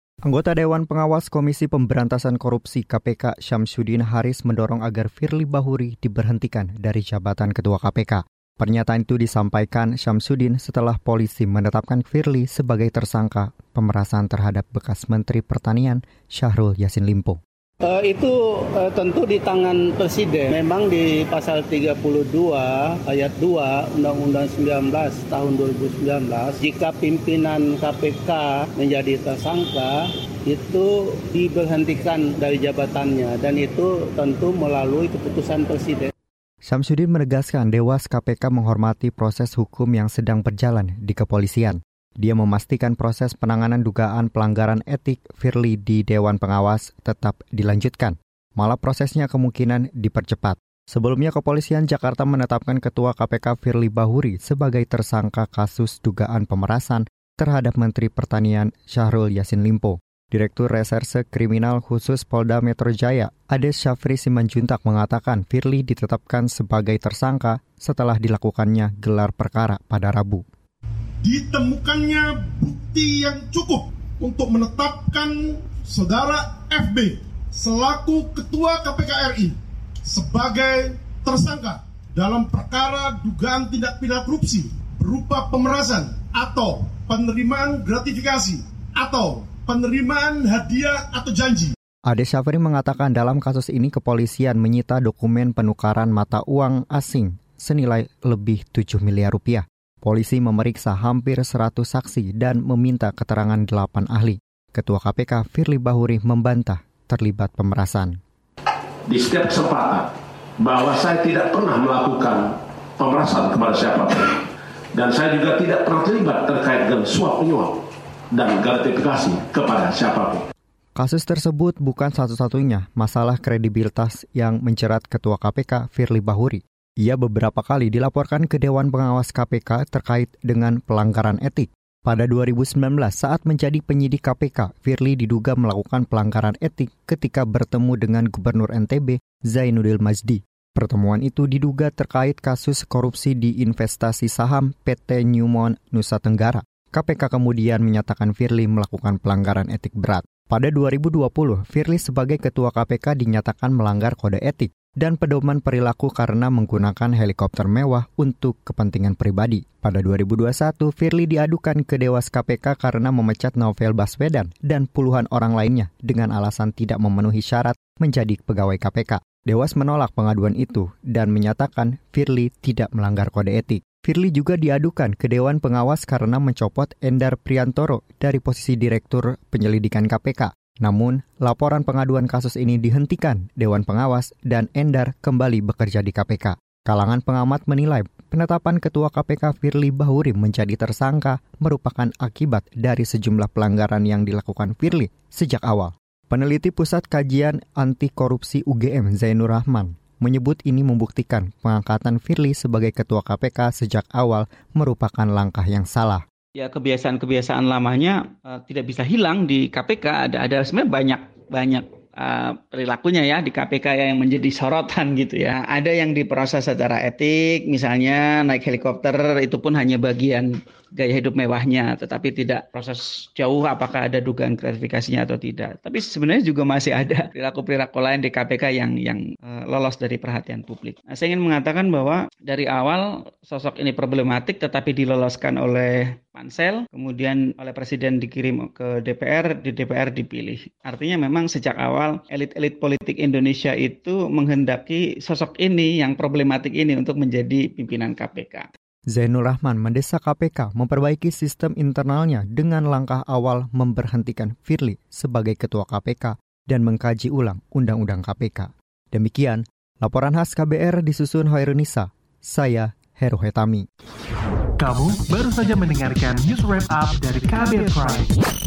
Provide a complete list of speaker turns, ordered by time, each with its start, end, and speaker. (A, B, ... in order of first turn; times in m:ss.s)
0:00.2-0:17.4 A
0:17.8-0:36.1 B
0:36.6-1:10.4 A
1:11.2-1:31.7 C
1:32.1-1:48.2 A
1:49.1-1:57.8 D
1:58.3-2:00.4 D
2:01.0-3:26.2 A
3:26.6-4:08.7 E
4:09.1-4:23.8 A
4:24.8-4:28.3 F